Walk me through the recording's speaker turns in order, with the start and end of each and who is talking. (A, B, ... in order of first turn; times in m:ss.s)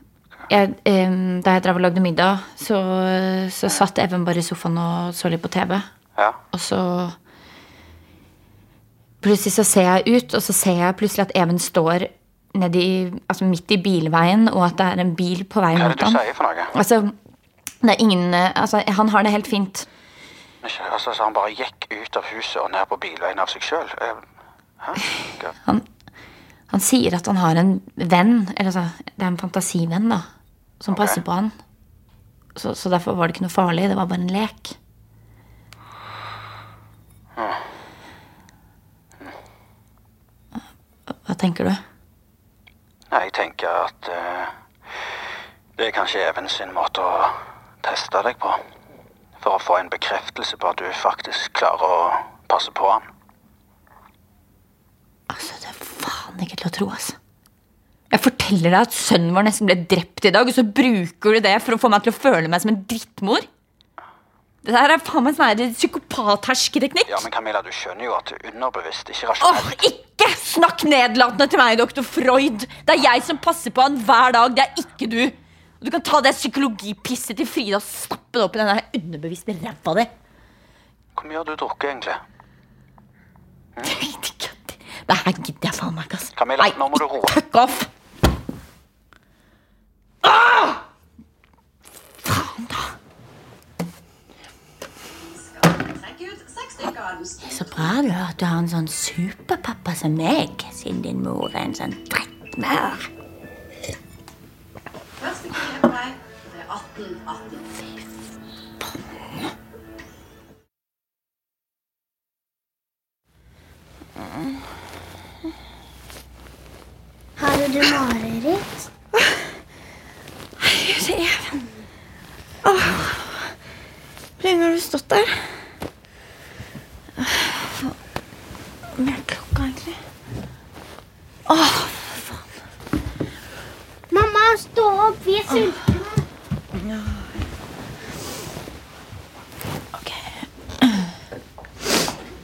0:00.5-0:05.9 A
0:06.5-0:07.2 A
0:09.2-0:16.2 A
0:15.7-0:16.7 B
0:16.7-0:17.1 A
0:17.8-0:19.9 A
0:20.6-0:24.2 B
0:24.8-0:25.5 B
0:26.7-0:30.3 A
0:30.8-0:31.6 A
0:30.9-0:31.2 B
0:32.6-0:34.8 A
0:37.4-0:37.6 B
0:41.1-0:41.8 A
0:43.1-0:44.5 B
0:45.8-0:48.6 B
0:49.4-0:53.0 B
0:55.3-0:57.2 A
0:58.1-1:03.5 A
1:04.6-1:07.2 A
1:07.1-1:09.8 B
1:09.4-1:20.1 A
1:21.2-1:22.2 B
1:23.8-1:27.9 A
1:26.4-1:27.4 B
1:30.2-1:30.8 A
1:32.3-1:33.0 A
1:37.4-1:43.1 A
1:57.4-1:58.8 C
2:00.6-2:01.6 A
2:02.6-2:03.5 A
2:04.4-2:05.5 A
2:07.2-2:08.0 A
2:09.0-2:10.0 A
2:11.5-2:12.4 A
2:14.1-2:16.3 C
2:16.9-2:17.2 A
2:20.0-2:21.1 A